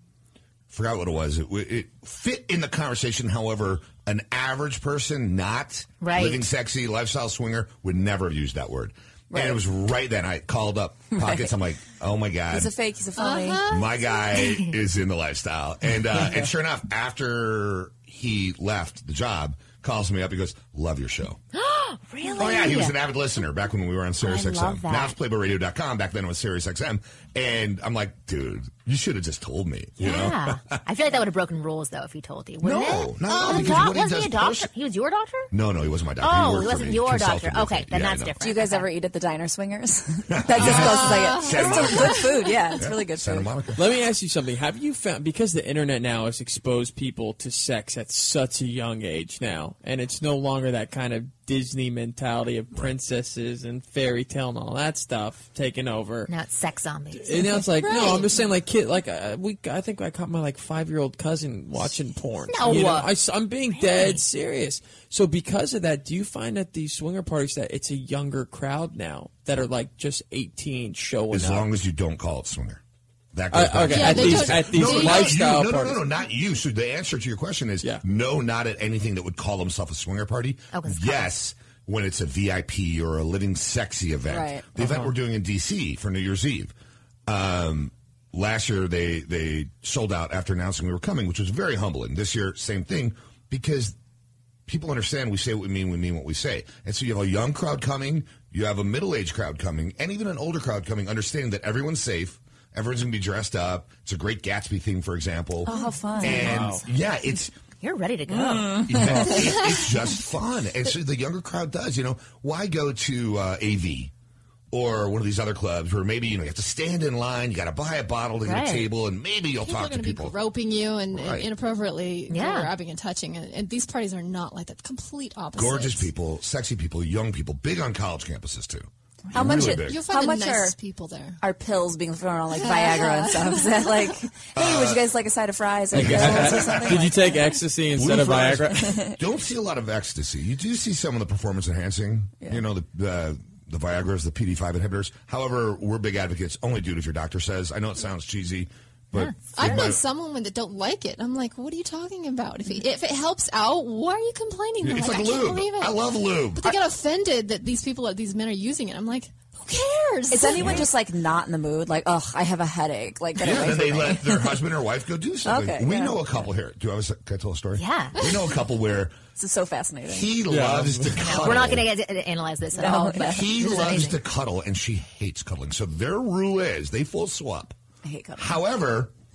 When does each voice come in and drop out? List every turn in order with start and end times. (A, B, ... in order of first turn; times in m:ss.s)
0:00.7-0:12.7 A
0:06.0-0:06.4 B
0:09.3-0:09.6 C
0:11.2-0:11.5 C
0:12.5-0:13.6 C
0:13.2-0:14.3 D
0:13.7-0:21.4 A
0:21.5-0:22.9 B
0:22.4-0:30.8 A
0:24.2-0:25.2 B
0:30.0-0:35.5 B
0:32.6-0:34.7 A
0:33.2-0:33.9 D
0:35.5-0:38.3 A
0:36.2-0:38.9 B
0:38.4-0:43.5 C
0:40.3-0:42.2 A
0:40.6-0:42.7 D
0:42.8-0:43.8 A
0:43.8-0:56.3 E
0:56.3-0:58.2 B
0:57.2-1:11.7 E
0:57.8-0:58.3 D
1:02.5-1:03.1 B
1:03.7-1:04.2 B
1:11.3-1:12.8 A
1:13.3-1:26.7 A
1:13.5-1:16.0 E
1:13.9-1:15.4 D
1:20.7-1:21.3 B
1:24.3-1:24.6 C
1:24.8-1:25.1 E
1:27.3-1:33.9 A
1:34.7-1:47.5 A
1:45.7-1:46.6 C
1:45.7-1:46.2 D
1:46.3-1:46.8 E
1:47.8-1:49.0 B
1:48.3-1:49.2 C
1:48.8-1:54.1 A
1:49.2-1:50.0 D
1:54.7-2:00.4 A
1:58.4-1:58.9 B
1:59.6-2:06.1 D
2:01.1-2:01.5 A
2:02.3-2:02.7 B
2:05.5-2:10.1 A
2:09.3-2:10.8 C
2:09.6-2:11.4 D
2:11.4-2:17.4 C
2:12.5-2:14.2 D
2:14.5-2:15.0 A
2:15.9-2:17.0 A
2:15.9-2:19.0 E
2:17.9-2:30.0 A
2:18.8-2:19.1 C
2:29.1-2:29.8 B
2:29.5-2:40.9 D
2:34.8-2:36.7 A
2:40.3-2:44.6 C
2:40.6-2:40.8 A
2:43.4-2:49.2 A
2:45.4-2:46.5 C
2:47.8-2:48.2 B
2:49.4-2:50.3 C
2:50.1-2:51.9 A
2:50.5-2:51.4 E
2:51.2-2:54.2 B
2:52.7-2:53.5 C
2:53.2-2:57.8 A
2:58.0-2:58.6 C
2:58.4-2:59.1 A